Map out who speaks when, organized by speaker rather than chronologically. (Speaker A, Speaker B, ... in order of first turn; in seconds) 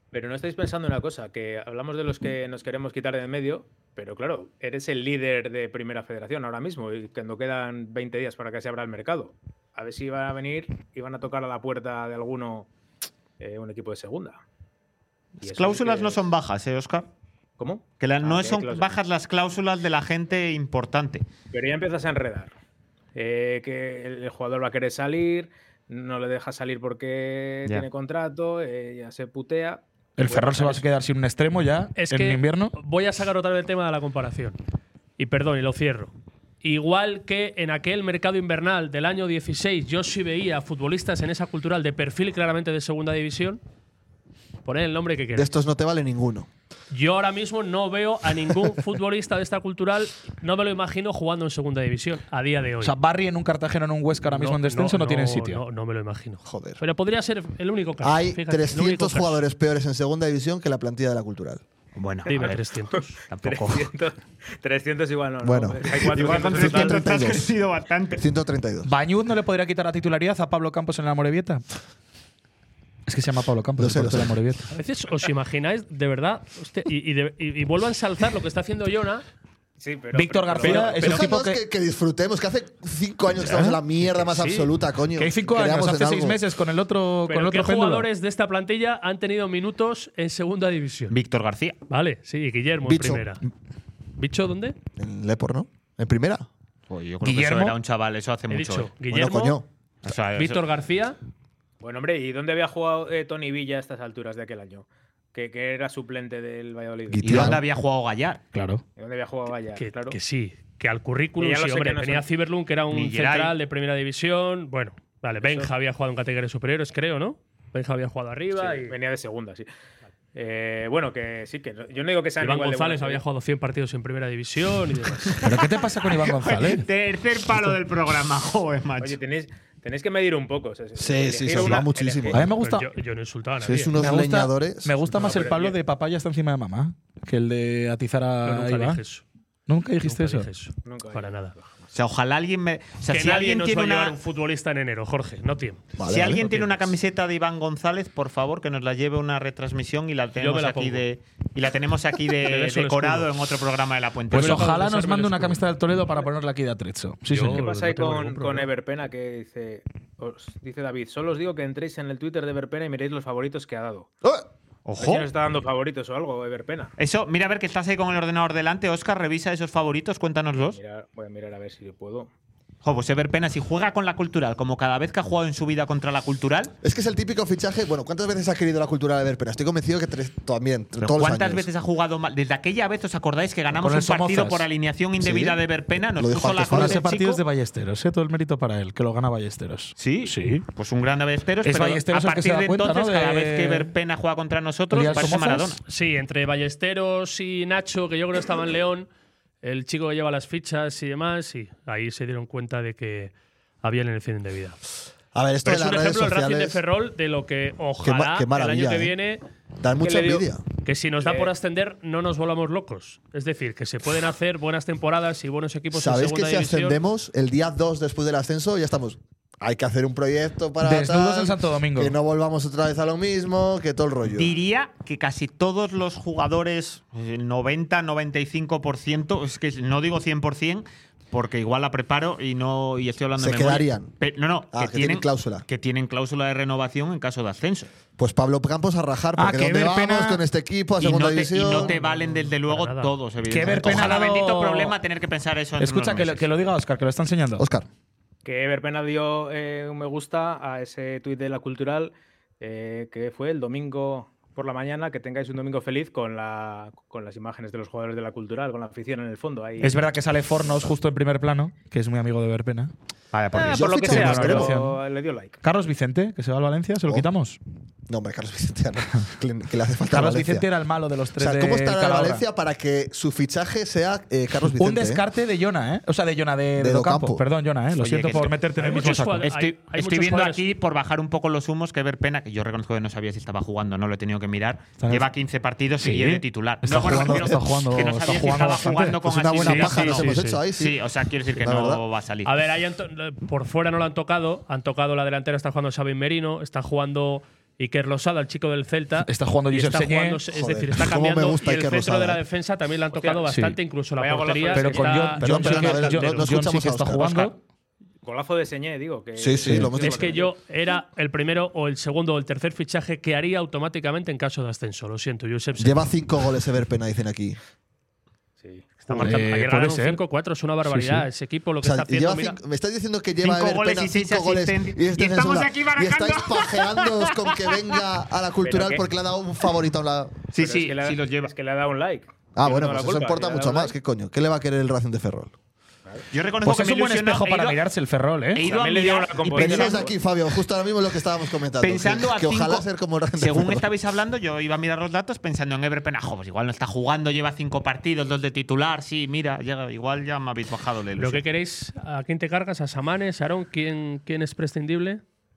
Speaker A: 0.1-12.7, 13.4-14.4, 15.4-16.3, 17.6-18.9, 21.5-22.5, 23.1-30.9, 62.3-67.2, 79.8-81.3, 101.8-107.5, 109.0-110.2, 111.4-112.3, 115.4-115.7, 118.6-119.7, 120.3-123.2, 129.0-132.5, 135.1-135.8, 140.8-141.9, 157.4-164.1, 165.0-166.9, 170.7-172.3, 210.0-210.4, 211.2-211.5, 248.4-260.1, 263.5-265.6, 303.1-303.5, 304.2-306.1, 308.2-310.5, 318.6-319.3, 328.6-329.0, 330.6-333.9, 338.6-340.1
Speaker B: 15.4-17.1, 18.0-21.3, 62.0-62.6, 63.3-63.9, 65.9-68.2, 91.1-91.8, 96.9-98.9, 100.0-100.6, 107.2-108.4, 112.9-113.5, 126.0-129.2, 141.9-144.2, 146.1-154.7, 164.9-165.3, 167.0-170.8, 172.8-176.7, 181.0-187.4, 190.0-195.8, 224.3-237.9, 241.0-246.5, 263.3-264.4, 278.0-292.6, 323.4-328.0, 330.5-331.5, 336.3-337.8, 338.6-340.1, 341.8-351.4
Speaker C: 30.2-32.8, 52.8-55.6, 68.8-71.6, 73.1-74.7, 80.1-81.6, 83.4-83.8, 85.2-88.1, 97.2-97.8, 108.5-108.8, 125.4-126.9, 132.3-132.9, 134.0-139.0, 139.7-140.5, 154.3-157.7, 183.7-184.7, 186.7-190.7, 191.6-193.9, 194.9-195.8, 220.8-222.2, 239.4-240.4, 243.5-244.9, 245.8-247.7, 259.8-262.9, 263.8-265.0, 265.6-267.6, 270.1-272.4, 274.7-279.5, 285.0-285.3, 286.0-290.6, 299.2-300.4, 303.5-303.8, 304.7-307.6, 319.1-320.2, 320.9-321.3, 336.6-338.6
Speaker D: 32.0-34.6, 35.2-43.6, 44.6-45.5, 46.9-53.0, 54.2-59.4, 62.3-63.2, 74.7-79.2, 84.3-84.7, 87.3-91.2, 91.9-93.4, 94.2-94.8, 98.5-99.6, 100.3-101.2, 109.8-119.0, 122.4-125.4, 131.5-131.8, 132.5-133.9, 138.4-139.2, 140.0-141.6, 143.1-145.8, 150.4-151.1, 152.4-153.3, 154.3-155.6, 157.3-158.7, 195.9-199.1, 199.6-204.8, 205.6-209.4, 210.8-217.0, 241.7-243.1, 278.8-280.6, 292.4-305.9, 310.0-316.1, 319.1-322.6, 351.2-355.2
Speaker E: 45.4-46.5, 56.5-56.8, 58.0-61.6, 65.4-67.5, 68.2-68.9, 73.8-74.4, 80.8-86.4, 92.8-93.2, 95.0-96.5, 99.1-99.7, 107.1-107.6, 131.0-132.5, 133.6-135.0, 146.0-146.5, 176.8-181.7, 185.2-185.6, 186.2-187.0, 205.3-206.8, 208.0-209.2, 209.8-210.6, 215.9-224.6, 233.4-234.1, 234.7-235.7, 238.2-241.9, 247.6-247.9, 263.7-264.7, 268.1-270.7, 271.4-275.2, 276.8-277.4, 286.9-287.6, 289.2-291.0, 291.6-292.0, 300.5-302.4, 305.4-307.5, 309.4-310.4, 315.8-317.6, 321.8-330.4, 332.6-335.5, 339.5-343.9